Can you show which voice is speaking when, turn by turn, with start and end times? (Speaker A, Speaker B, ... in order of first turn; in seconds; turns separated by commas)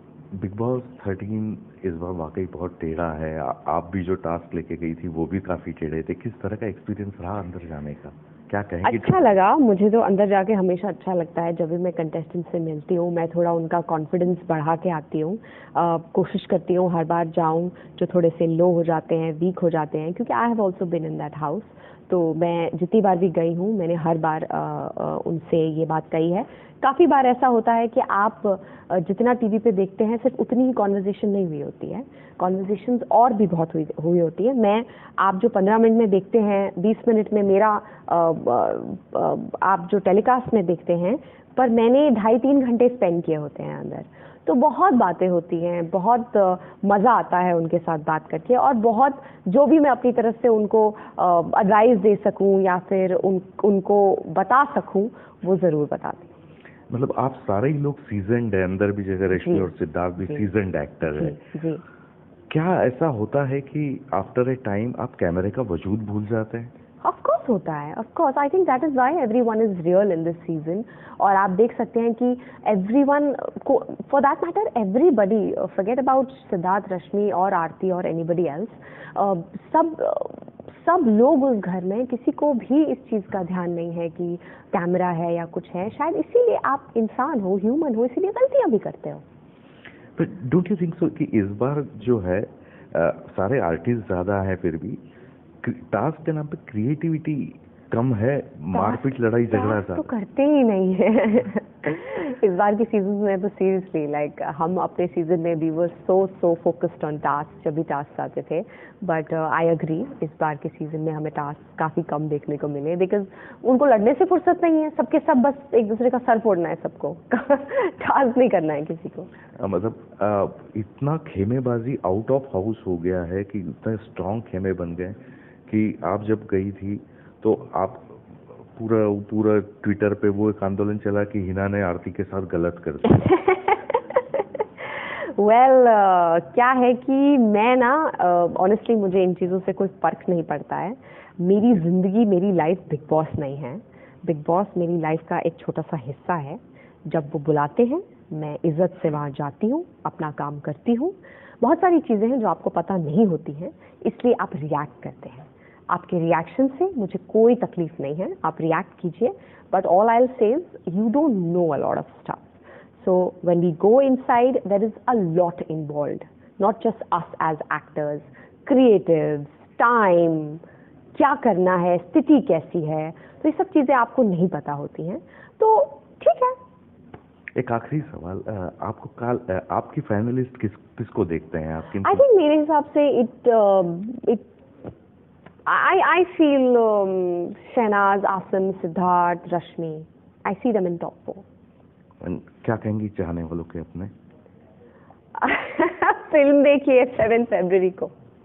Speaker A: 0.3-9.2, Speaker B: 8.8-56.3, Speaker A: 56.9-61.4, Speaker B: 59.3-59.7, Speaker B: 60.2-60.5, Speaker B: 61.1-61.8, Speaker A: 62.5-66.7, Speaker B: 67.0-89.2, Speaker A: 90.2-95.0, Speaker A: 95.6-100.1, Speaker B: 98.7-119.3, Speaker A: 119.6-125.2, Speaker A: 125.7-133.2, Speaker B: 133.1-170.6, Speaker B: 171.1-176.6, Speaker A: 177.6-182.2, Speaker B: 182.0-184.5, Speaker B: 185.7-191.4, Speaker A: 192.2-194.1, Speaker B: 195.4-198.1